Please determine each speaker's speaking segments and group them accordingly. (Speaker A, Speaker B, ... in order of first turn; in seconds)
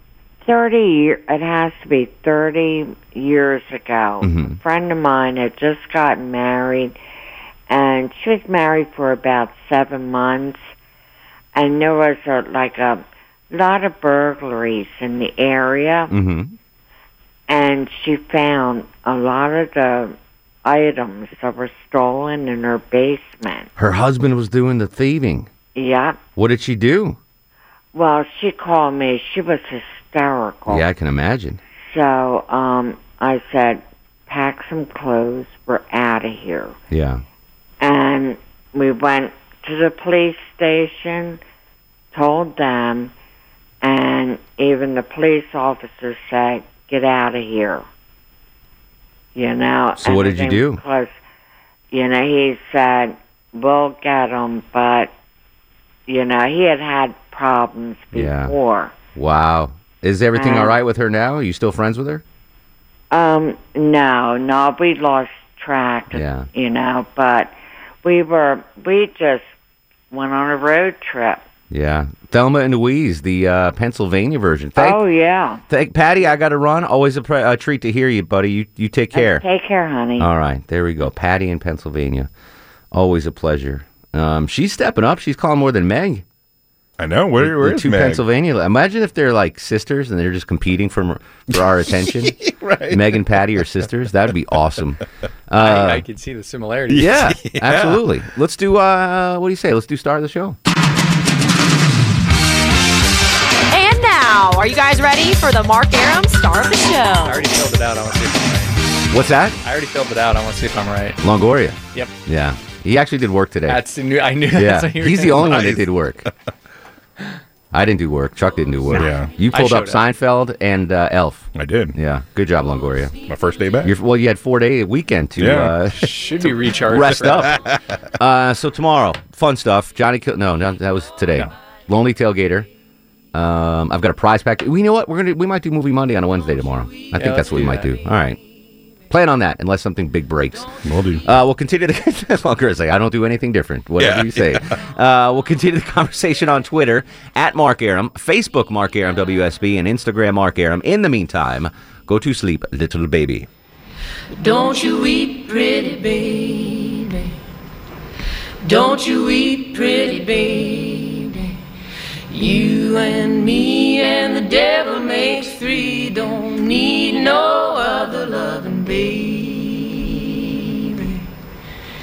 Speaker A: 0.4-7.0, 7.7-10.7, 11.6-16.1, 17.5-23.7, 25.8-26.2, 27.9-30.9, 31.9-36.8, 37.8-41.4, 42.1-43.1, 43.8-47.9, 49.4-51.2, 51.9-55.1, 56.1-59.0, 60.4-60.8, 63.1-69.5, 70.1-71.5, 74.8-75.6, 79.1-80.3
Speaker B: 4.2-4.6, 16.1-16.5, 23.8-25.5, 26.4-27.2, 30.7-31.6, 36.9-37.2, 50.0-50.8, 58.1-58.5, 59.1-62.2, 66.1-66.5, 71.7-75.0, 75.7-79.4, 80.2-82.3, 82.9-86.2, 87.4-92.4, 92.9-96.0, 96.9-100.6, 109.1-109.6, 111.2-113.8, 114.5-116.3, 117.7-123.2, 123.8-127.6, 128.2-132.7, 133.3-138.4, 139.1-153.5
Speaker C: 87.0-88.2, 92.5-93.0, 121.6-121.9, 123.3-123.9, 140.8-141.2, 144.0-144.6
Speaker D: 95.5-97.8, 107.2-108.8, 109.6-111.2, 113.7-115.8, 118.9-120.0, 125.9-127.6, 137.2-137.9
Speaker E: 103.7-107.4
Speaker F: 154.4-157.3, 158.7-161.5, 162.3-171.2